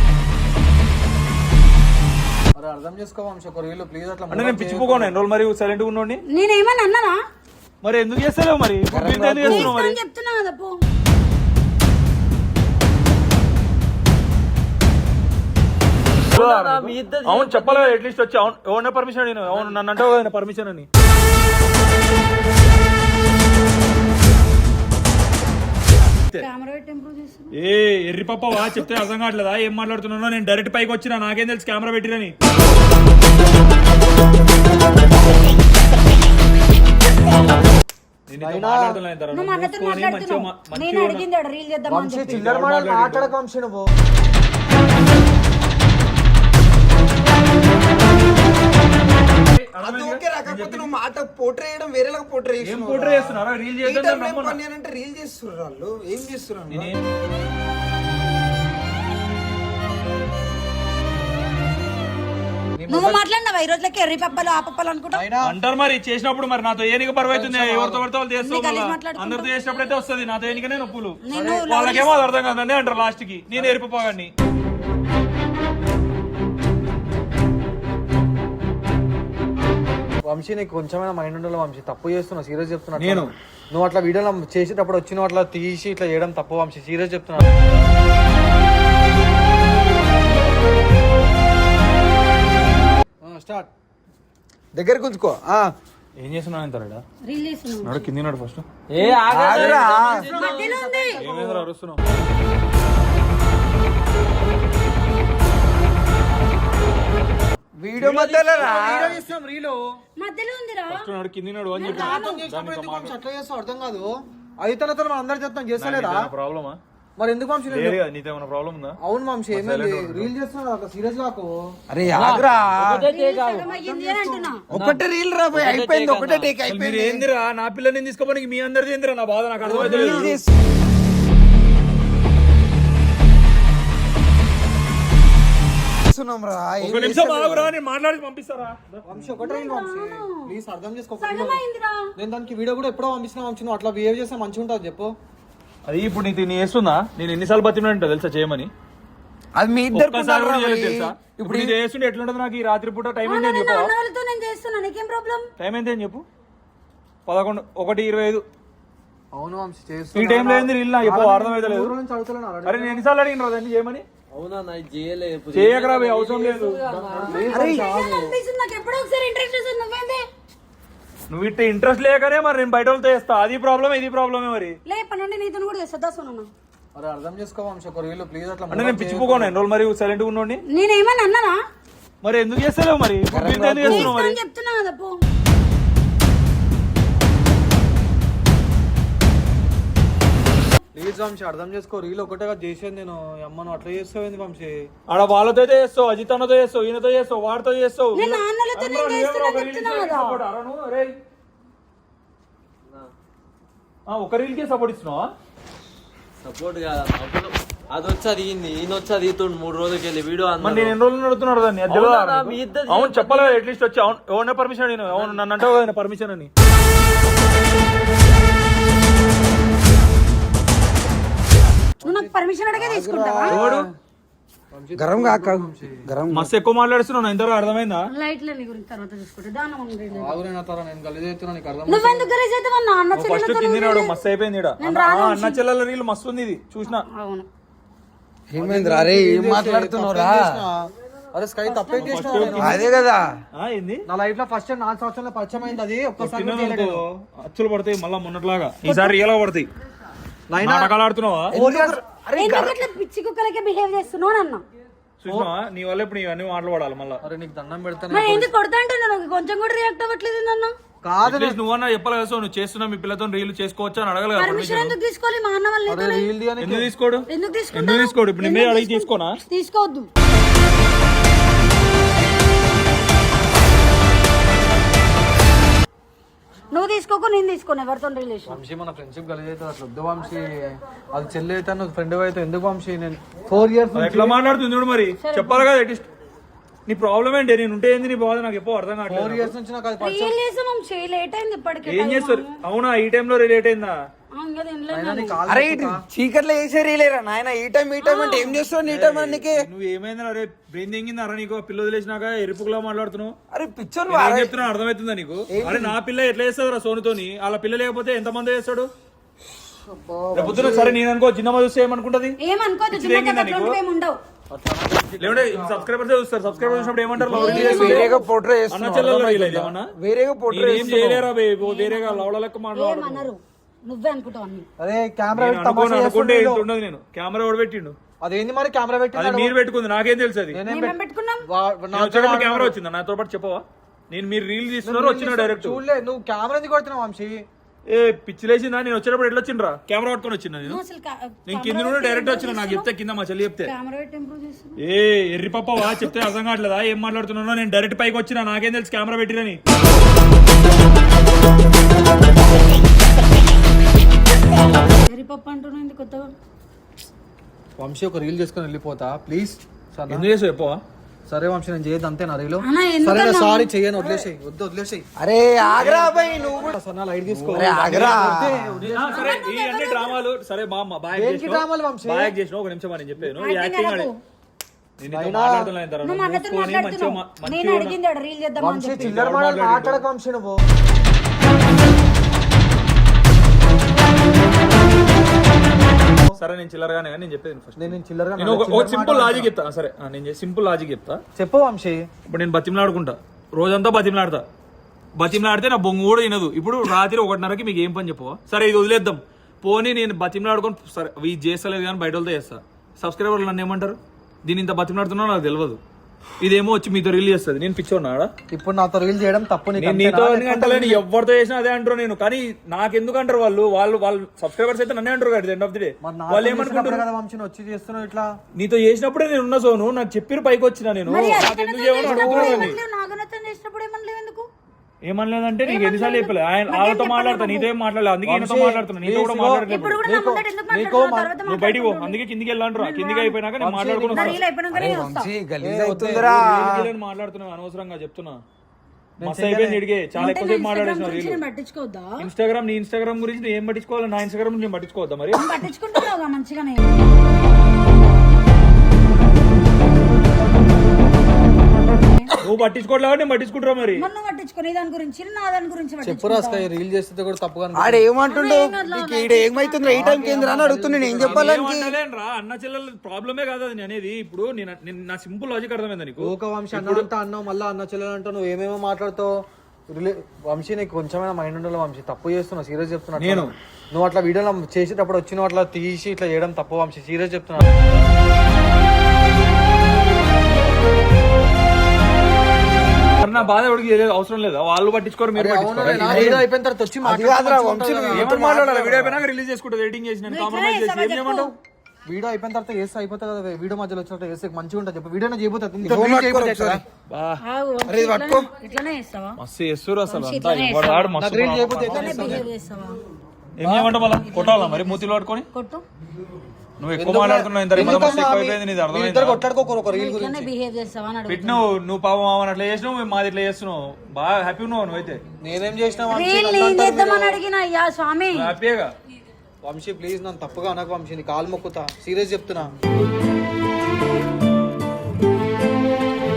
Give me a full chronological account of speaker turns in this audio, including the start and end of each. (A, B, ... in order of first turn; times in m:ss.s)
0:02.6-0:05.2 A
0:04.3-0:06.2 B
0:06.3-0:07.2 C
0:07.8-0:10.0 B
0:08.9-0:09.7 D
0:09.4-0:10.8 C
0:16.3-0:18.0 E
0:16.3-0:20.9 B
0:19.5-0:19.8 E
0:26.4-0:27.5 C
0:27.6-0:32.4 B
0:38.3-0:41.2 B
0:38.4-0:39.0 A
0:39.3-0:42.3 C
0:41.9-0:43.9 A
0:42.3-0:43.3 B
0:49.5-0:50.9 B
0:49.8-0:57.0 D
0:52.6-0:54.6 B
0:56.7-0:57.0 B
1:02.8-1:03.2 A
1:02.9-1:05.3 C
1:05.1-1:05.6 A
1:05.4-1:14.3 B
1:07.2-1:08.1 A
1:08.4-1:09.5 C
1:11.2-1:12.2 C
1:11.3-1:11.7 A
1:20.3-1:27.5 A
1:23.0-1:23.3 B
1:33.2-1:33.7 A
1:34.8-1:35.6 D
1:36.2-1:37.0 B
1:37.3-1:38.1 C
1:37.8-1:38.7 B
1:38.9-1:40.8 E
1:39.3-1:40.3 D
1:39.8-1:41.7 A
1:40.3-1:41.2 C
1:41.2-1:42.0 B
1:47.8-1:49.2 D
1:48.0-1:48.8 B
1:48.6-1:50.0 A
1:50.2-1:51.1 C
1:50.9-1:53.2 B
1:51.7-1:52.5 C
1:51.8-1:56.3 A
1:55.8-1:56.8 B
1:57.2-1:58.0 A
1:57.7-1:59.0 B
1:59.0-2:01.8 A
1:59.5-2:00.3 B
2:01.9-2:03.1 D
2:02.1-2:03.7 E
2:03.1-2:04.6 C
2:03.5-2:04.5 A
2:04.7-2:07.3 D
2:04.7-2:05.0 E
2:05.5-2:06.5 E
2:06.6-2:10.3 B
2:09.6-2:10.4 A
2:09.7-2:10.5 D
2:16.1-2:17.7 D
2:16.8-2:18.8 B
2:19.0-2:21.6 A
2:19.4-2:20.6 C
2:21.2-2:22.1 C
2:22.2-2:25.1 A
2:25.9-2:28.7 B
2:29.6-2:31.8 D
2:29.9-2:33.9 B
2:33.2-2:35.4 C
2:35.6-2:36.2 B
2:37.3-2:38.4 B
2:39.3-2:43.0 A
2:40.1-2:42.0 B
2:42.6-2:44.0 B
2:44.3-2:47.6 E
2:45.5-2:46.8 B
2:47.1-2:48.4 A
2:47.5-2:50.2 C
2:47.5-2:47.8 D
2:51.3-2:54.8 B
2:54.9-2:56.5 C
2:57.0-2:59.6 A
2:58.7-3:00.6 B
3:00.7-3:01.6 C
3:02.2-3:04.4 B
3:03.3-3:04.1 D
3:03.8-3:05.2 C
3:10.9-3:14.9 A
3:15.1-3:21.1 B
3:18.1-3:20.4 C
3:22.9-3:23.1 E
3:24.1-3:25.3 B
3:26.4-3:31.0 E
3:30.6-3:36.5 B
3:31.9-3:33.6 E
3:35.1-3:35.4 E
3:42.0-3:42.3 A
3:42.0-3:43.6 C
3:42.7-3:43.9 D
3:43.5-3:43.9 B
3:44.7-3:46.1 A
3:45.0-3:46.5 D
3:46.3-3:48.1 B
3:48.1-3:50.4 C
3:50.1-3:52.4 A
3:51.9-3:54.2 C
3:53.1-3:57.0 B
3:54.8-3:55.6 C
3:56.8-3:57.5 C
3:58.5-4:00.6 D
3:58.6-4:02.9 A
4:01.6-4:02.5 C
4:02.0-4:02.8 B
4:02.5-4:03.4 D
4:03.5-4:04.0 B
4:04.1-4:07.0 A
4:06.2-4:09.7 B
4:08.8-4:09.1 C
4:10.5-4:10.9 A
4:10.6-4:11.6 B
4:11.5-4:12.8 D
4:11.5-4:12.0 A
4:12.4-4:14.6 C
4:15.2-4:17.2 B
4:15.3-4:15.5 A
4:17.2-4:18.5 A
4:18.1-4:20.7 C
4:21.0-4:21.6 A
4:21.2-4:25.0 B
4:24.4-4:26.3 C
4:25.9-4:26.9 A
4:26.6-4:29.4 B
4:27.3-4:30.1 C
4:36.7-4:38.6 C
4:38.5-4:44.4 A
4:43.9-4:46.1 B
4:45.2-4:45.7 C
4:46.9-4:49.5 B
4:49.1-4:50.4 A
4:50.0-4:52.6 C
4:51.9-4:54.0 B
4:54.4-4:55.4 C
4:54.9-4:56.0 A
4:55.5-4:59.6 D
4:58.0-4:58.7 C
4:58.8-5:03.4 B
5:03.5-5:04.6 D
5:04.1-5:08.9 B
5:05.5-5:06.0 D
5:09.9-5:10.9 A
5:10.4-5:12.4 B
5:10.4-5:10.9 D
5:12.4-5:14.2 C
5:12.9-5:13.8 B
5:14.5-5:15.9 A
5:15.2-5:18.1 B
5:16.5-5:17.7 A
5:17.3-5:21.3 D
5:17.3-5:18.2 C
5:18.7-5:19.9 B
5:20.5-5:23.3 B
5:21.6-5:24.7 C
5:24.8-5:26.7 A
5:25.4-5:28.0 B
5:28.2-5:29.6 A
5:29.1-5:30.6 B
5:30.5-5:32.8 A
5:30.7-5:31.5 C
5:31.9-5:35.8 B
5:34.8-5:37.4 A
5:37.9-5:40.8 B
5:40.6-5:42.9 C
5:41.5-5:43.7 B
5:43.6-5:44.8 C
5:44.8-5:49.6 B
5:54.9-5:56.3 C
5:57.8-6:00.3 A
6:00.1-6:00.8 B
6:01.3-6:05.1 A
6:02.6-6:03.7 C
6:05.2-6:06.8 D
6:05.8-6:09.4 A
6:07.3-6:08.2 B
6:07.5-6:08.8 D
6:08.8-6:14.1 B
6:09.1-6:10.2 C
6:11.1-6:12.3 A
6:13.2-6:14.1 C
6:15.0-6:18.0 B
6:15.1-6:15.7 A
6:16.0-6:19.0 C
6:18.6-6:20.6 A
6:19.0-6:20.0 B
6:26.4-6:31.2 B
6:27.8-6:29.5 A
6:31.4-6:32.1 A
6:32.3-6:34.4 B
6:35.2-6:45.8 B
6:46.4-6:48.3 B
6:48.5-6:51.0 A
6:49.8-6:57.1 B
6:56.0-6:58.3 A
6:58.6-7:02.8 B
7:01.0-7:04.5 C
7:02.0-7:02.7 A
7:05.0-7:10.0 B
7:05.6-7:07.7 C
7:08.2-7:11.3 A
7:09.6-7:12.2 C
7:11.4-7:14.4 B
7:12.8-7:13.4 C
7:13.6-7:14.4 A
7:14.1-7:15.3 C
7:14.7-7:16.9 D
7:15.6-7:16.3 A
7:16.0-7:18.4 B
7:19.2-7:19.9 A
7:19.2-7:21.4 B
7:20.1-7:22.3 C
7:22.2-7:25.5 B
7:25.3-7:27.0 C
7:32.0-7:32.3 C
7:32.4-7:34.1 B
7:34.0-7:36.7 C
7:36.0-7:38.1 A
7:37.8-7:42.0 D
7:38.3-7:40.2 C
7:39.9-7:41.6 A
7:41.2-7:47.1 B
7:46.2-7:49.4 A
7:49.9-7:57.7 A
7:53.2-7:53.5 B
8:03.2-8:06.4 B
8:05.4-8:08.5 A
8:05.8-8:06.4 D
8:07.0-8:09.2 D
8:08.1-8:11.5 B
8:10.3-8:11.5 C
8:12.1-8:16.8 A
8:15.8-8:16.8 D
8:17.1-8:17.4 B
8:17.4-8:19.4 C
8:17.8-8:18.5 D
8:19.4-8:22.5 B
8:20.1-8:21.1 C
8:21.2-8:22.5 A
8:21.9-8:23.0 C
8:23.6-8:25.5 B
8:24.1-8:25.0 C
8:25.5-8:25.8 C
8:26.8-8:29.4 B
8:27.0-8:30.5 A
8:27.8-8:28.3 C
8:29.9-8:31.6 C
8:31.3-8:35.2 B
8:35.4-8:37.4 A
8:36.1-8:38.5 C
8:38.3-8:38.9 B
8:39.6-8:42.7 A